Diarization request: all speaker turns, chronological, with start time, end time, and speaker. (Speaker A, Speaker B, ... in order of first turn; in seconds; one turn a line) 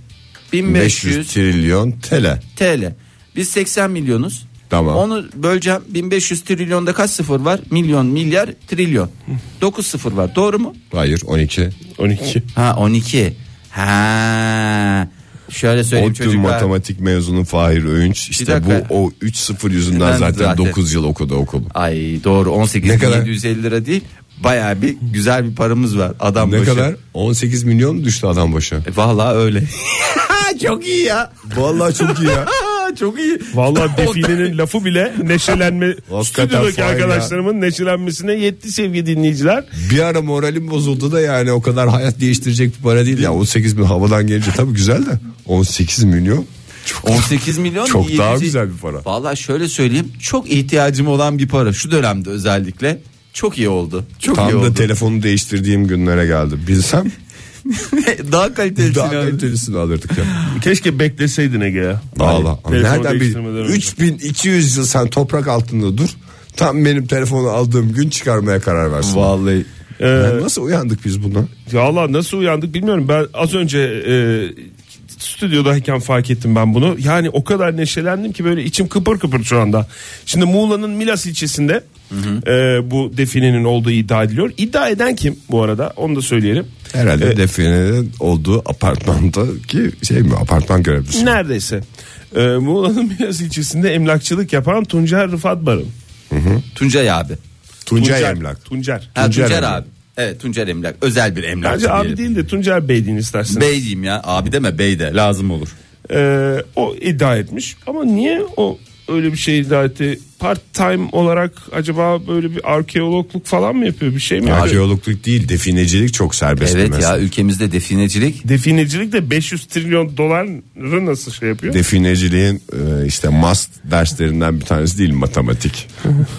Speaker A: 0.5-1.3
Speaker B: 0.7-2.4
Speaker A: 2.6-10.8
Speaker B: 4.7-5.0
Speaker B: 10.9-11.8
Speaker C: 12.0-12.4
Speaker A: 12.5-16.7
Speaker B: 15.9-21.7
Speaker A: 18.4-18.9
Speaker A: 19.9-20.8
Speaker A: 21.7-26.9
Speaker B: 22.8-23.3
Speaker B: 26.4-28.9
Speaker A: 28.9-34.5
Speaker B: 31.5-32.5
Speaker C: 33.5-39.7
Speaker B: 36.1-37.4
Speaker B: 39.8-49.1
Speaker A: 47.0-54.9
Speaker B: 54.3-57.1
Speaker A: 57.7-59.5
Speaker B: 58.8-60.3
Speaker C: 60.5-63.9
Speaker B: 62.1-69.3
Speaker A: 69.0-69.7
Speaker C: 70.0-70.5
Speaker B: 70.1-71.5
Speaker C: 71.7-81.8
Speaker A: 82.1-82.4
Speaker C: 82.4-87.4
Speaker B: 86.9-91.4
Speaker C: 91.1-95.9
Speaker B: 96.3-96.6
Speaker A: 96.7-97.4
Speaker B: 97.9-98.6
Speaker C: 98.0-99.6
Speaker A: 99.2-102.2
Speaker B: 99.2-99.8
Speaker C: 101.6-103.7
Speaker A: 103.5-105.7
Speaker C: 106.1-114.8
Speaker B: 114.4-117.3
Speaker A: 116.6-118.4
Speaker C: 118.5-121.8
Speaker B: 121.7-125.9